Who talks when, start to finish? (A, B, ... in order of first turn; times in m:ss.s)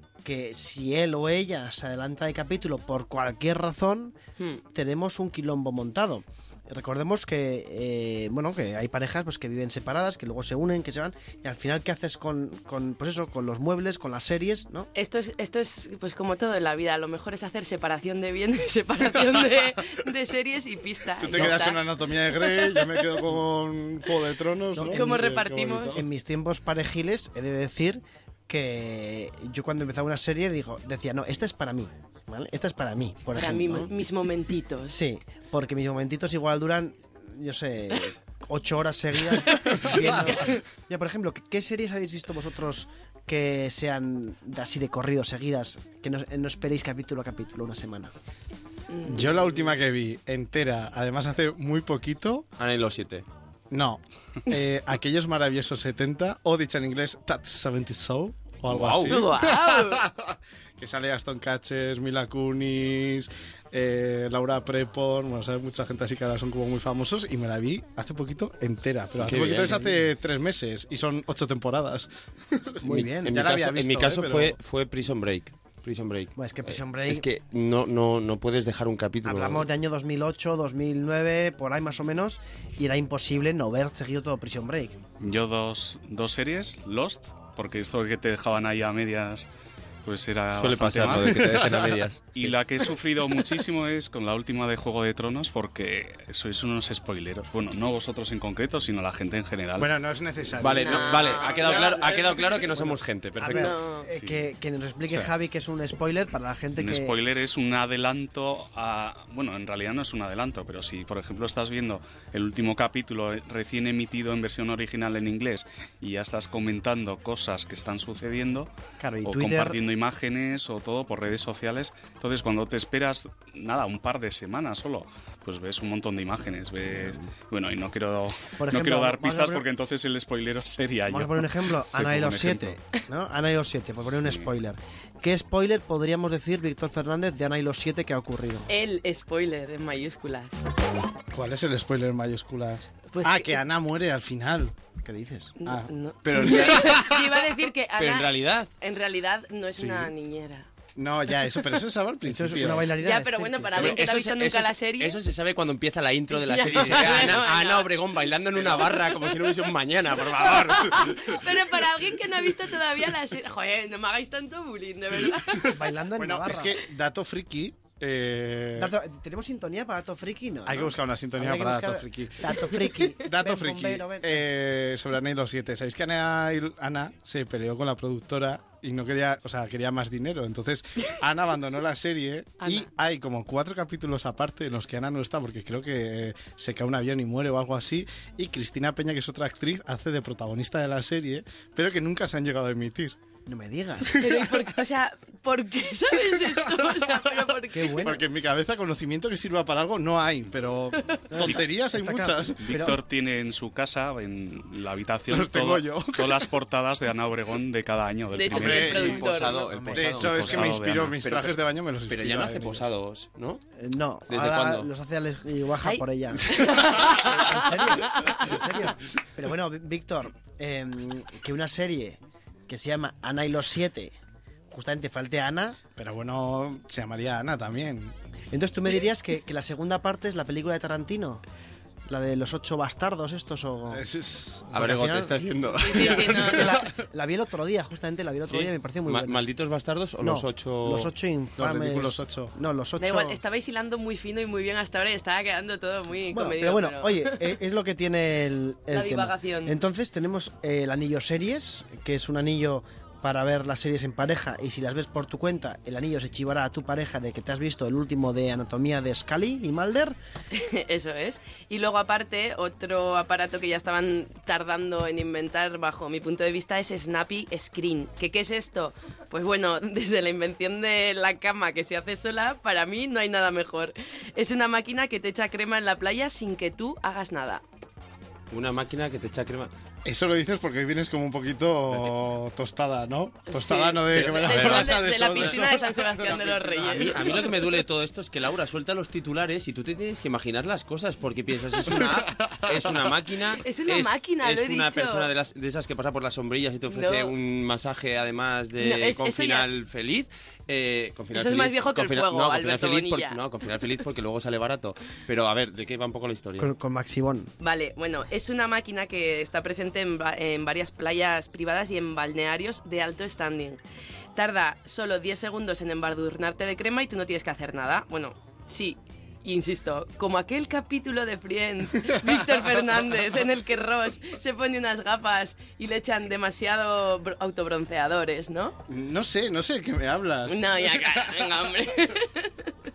0:00.2-0:04.2 A
0:04.7-0:14.9 A
0:14.9-0:21.8 B
0:21.2-0:26.0 C
0:22.4-0:23.0 B
0:24.8-0:25.1 A
0:24.9-0:26.0 B
0:25.9-0:33.9 A
0:33.3-0:35.0 B
0:34.9-0:48.1 A
0:39.5-0:40.6 B
0:48.9-0:49.3 B
0:49.0-0:52.5 C
0:52.6-0:53.2 D
0:53.7-1:14.6 C
0:58.7-0:59.2 D
0:59.1-1:00.1 B
1:09.2-1:09.8 D
1:09.7-1:10.0 A
1:12.8-1:13.3 A
1:12.9-1:19.6 D
1:16.3-1:17.3 A
1:19.2-1:25.0 A
1:25.2-1:29.5 E
1:30.0-1:31.7 E
1:30.5-1:32.6 D
1:31.6-1:32.0 C
1:32.3-1:39.9 E
1:39.8-1:42.2 C
1:40.6-1:43.8 D
1:40.8-1:42.6 B
1:42.8-1:47.2 A
1:43.5-1:44.1 B
1:44.1-1:44.4 E
1:46.8-1:58.7 E
1:59.0-1:59.8 A
1:59.2-2:12.8 E
2:06.9-2:07.2 A
2:08.6-2:09.7 A
2:11.1-2:18.7 A
2:14.0-2:14.5 E
2:18.7-2:20.6 B
2:21.3-2:24.8 C
2:23.1-2:23.6 B
2:25.0-2:25.6 A
2:25.6-2:30.7 B
2:26.2-2:27.3 D
2:28.0-2:28.7 D
2:29.7-2:30.1 C
2:31.0-2:32.9 C
2:32.2-2:34.0 A
2:33.0-2:35.2 B
2:33.7-2:41.4 D
2:36.4-2:37.9 B
2:36.6-2:37.4 C
2:40.5-2:45.8 B
2:45.6-2:46.8 A
2:46.2-2:48.9 C
2:48.8-2:54.5 A
2:50.7-3:13.2 C
3:02.6-3:02.9 B
3:13.5-3:14.2 A
3:14.1-3:14.5 C
3:14.2-3:18.0 B
3:17.7-3:18.2 A
3:18.0-3:22.7 C
3:21.3-3:23.0 A
3:22.6-3:28.9 E
3:25.3-3:26.4 C
3:28.3-3:29.7 B
3:28.5-3:29.3 C
3:28.7-3:31.6 D
3:29.6-3:30.1 A
3:29.9-3:32.9 C
3:30.1-3:31.2 E
3:32.1-3:33.6 D
3:33.8-3:44.2 A
3:34.3-3:34.9 D
3:35.8-3:38.4 B
3:44.7-3:45.8 A
3:46.0-3:48.2 C
3:48.5-3:51.4 A
3:52.1-3:54.0 A
3:53.9-3:54.9 C
3:54.7-3:56.9 D
3:54.8-3:55.4 A
3:55.8-3:56.9 B
3:56.0-3:59.4 A
3:58.5-4:01.1 D
4:00.2-4:03.4 A
4:01.6-4:02.5 C
4:03.0-4:07.5 B
4:06.3-4:20.2 A
4:08.9-4:09.8 B
4:20.5-4:37.6 B
4:38.5-4:39.7 D
4:40.0-4:47.5 C
4:43.5-4:47.4 B
4:44.1-4:45.0 D
4:46.3-5:06.7 D
4:51.9-4:53.0 C
4:53.5-4:55.3 B
4:56.9-4:57.4 B
4:58.8-4:59.7 B
5:01.3-5:03.4 B
5:06.6-5:07.5 A
5:07.6-5:13.8 B
5:14.4-5:28.8 B
5:28.9-5:31.6 C
5:30.5-5:32.7 B